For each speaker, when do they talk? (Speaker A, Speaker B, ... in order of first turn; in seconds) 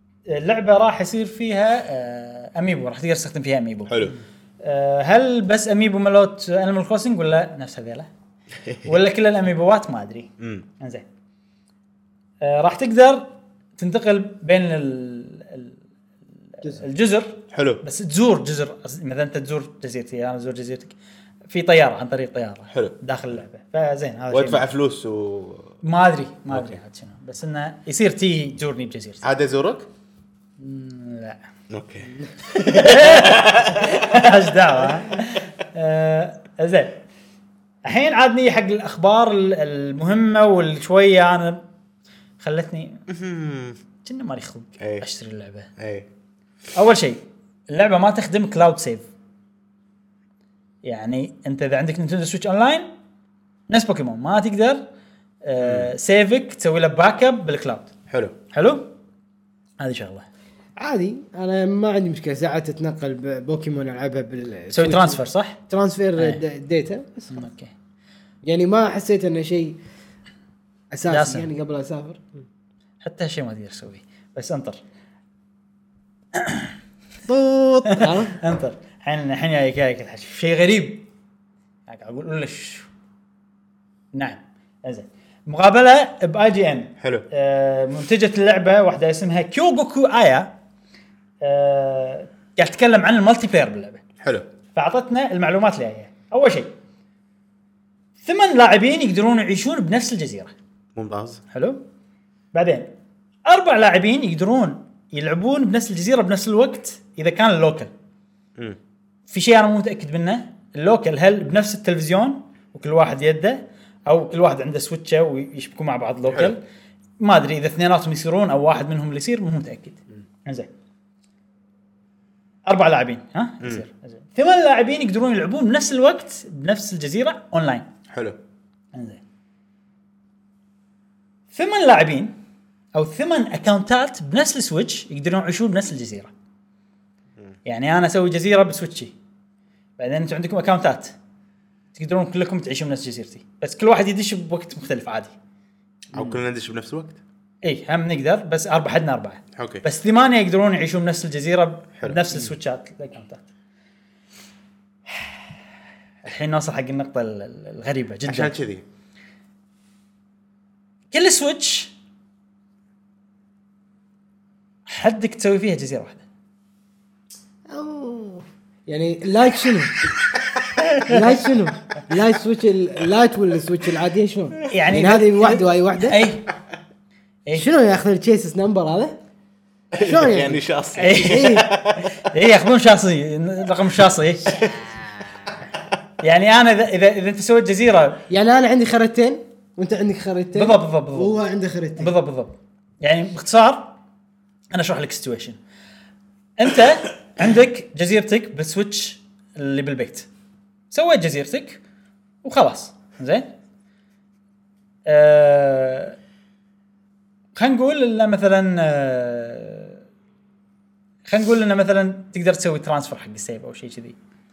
Speaker A: 0.3-8.1, 8.8-11.1, 12.4-15.8, 16.6-20.9, 21.5-24.7, 25.8-29.2, 30.6-31.4, 32.5-37.0, 37.9-41.6, 42.4-43.1, 44.0-45.7, 46.8-49.0, 50.8-52.9, 53.7-54.8, 55.5-57.9, 58.5-58.9, 59.8-60.3, 64.7-65.6, 67.3-67.7, 71.1-71.5, 73.0-74.8, 76.3-76.7, 77.8-81.1, 81.9-82.9, 84.1-90.5, 91.4-94.0, 94.7-96.7, 98.2-100.5, 101.5-101.8, 102.5-102.9, 103.5-107.9, 109.3-116.6, 117.2-120.7, 122.7-127.9, 128.9-129.2, 131.5-132.3, 132.9-136.3, 137.7-139.1, 140.0-141.2, 141.9-145.3, 147.6-153.5, 156.2-158.5, 161.1-161.9, 164.9-166.2, 170.8-171.3, 174.7-176.5, 181.0-184.7, 186.2-188.2, 190.6-191.4, 192.0-193.9, 194.7-195.6, 196.6-200.3, 200.9-201.8, 202.4-203.5, 205.1-206.2, 207.6-210.0, 211.3-214.2
Speaker B: 3.9-4.2, 10.4-10.7, 17.5-17.8, 22.7-23.0, 24.3-25.8, 26.5-26.8, 29.2-29.9, 31.7-34.4, 34.9-35.1, 43.1-43.8, 44.8-45.0, 45.8-46.1, 55.6-55.9, 58.1-58.4, 87.0-87.3, 94.2-94.5, 101.0-101.4, 116.3-116.5, 128.1-128.4, 146.1-147.2, 149.6-149.8, 152.0-152.4, 158.2-158.8, 179.9-182.3, 184.5-184.8
Speaker C: 60.8-67.5, 68.4-69.8, 70.9-72.2, 77.3-78.4, 167.7-170.1, 171.0-176.2, 177.5-179.2, 180.0-181.7, 188.3-192.1